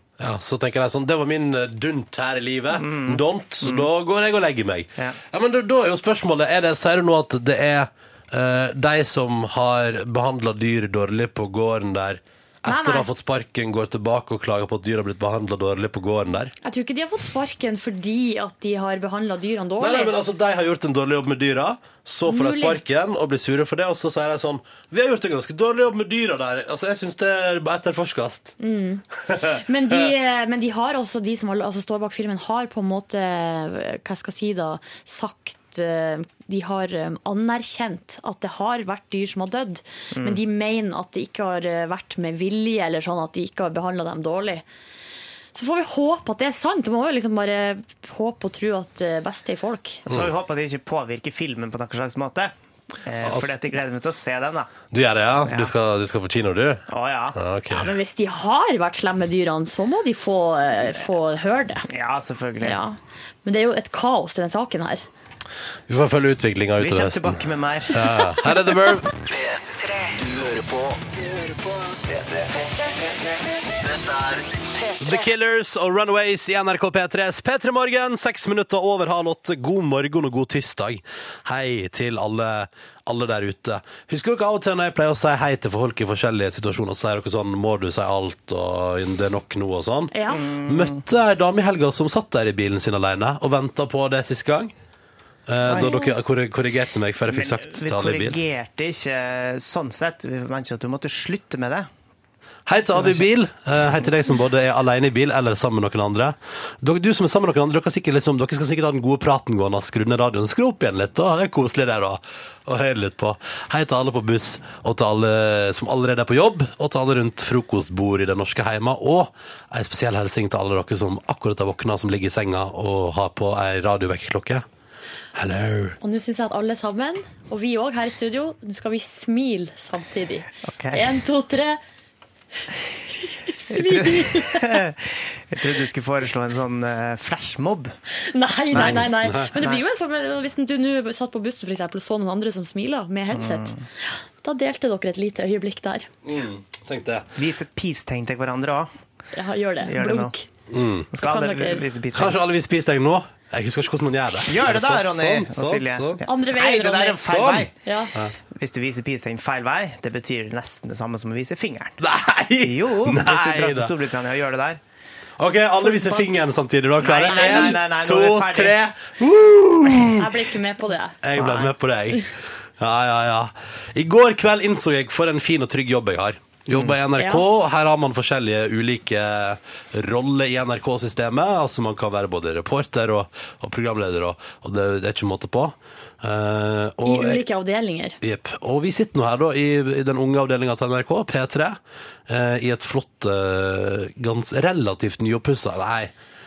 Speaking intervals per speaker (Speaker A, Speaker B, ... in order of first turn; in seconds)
Speaker A: 0.2-16.5, 19.8-28.5, 29.3-30.1, 54.9-57.9, 65.9-67.4, 67.9-69.5, 70.3-71.0, 74.0-74.3, 75.0-94.7, 95.5-98.4, 102.7-124.7, 125.3-126.0, 138.7-139.5, 146.2-147.3, 150.7-151.1, 152.1-156.2, 157.2-158.3, 162.0-163.9, 165.4-170.4, 171.2-187.4, 188.2-196.1
Speaker B: 2.8-3.9, 40.1-40.4, 50.1-52.5, 53.0-54.8, 56.9-57.4, 61.9-62.8, 66.8-68.2, 90.3-91.0, 97.3-101.9, 102.9-103.3, 130.6-131.0, 133.7-137.9, 143.3-143.8, 147.3-148.9, 149.8-150.3, 151.1-152.4, 154.5-157.7, 158.5-162.0, 162.6-164.8, 167.0-168.8, 171.4-171.7
Speaker C: 12.6-13.1, 16.6-20.2, 22.3-22.8, 28.6-44.6, 45.5-50.0, 57.7-61.9, 62.6-65.0, 90.1-90.4, 95.7-96.1, 126.0-131.8, 133.2-134.8, 138.2-146.1, 149.3-150.5, 151.2-151.8, 156.2-157.3, 157.8-158.1, 165.8-166.3, 167.3-167.8, 170.2-171.2, 177.2-177.4, 187.0-188.2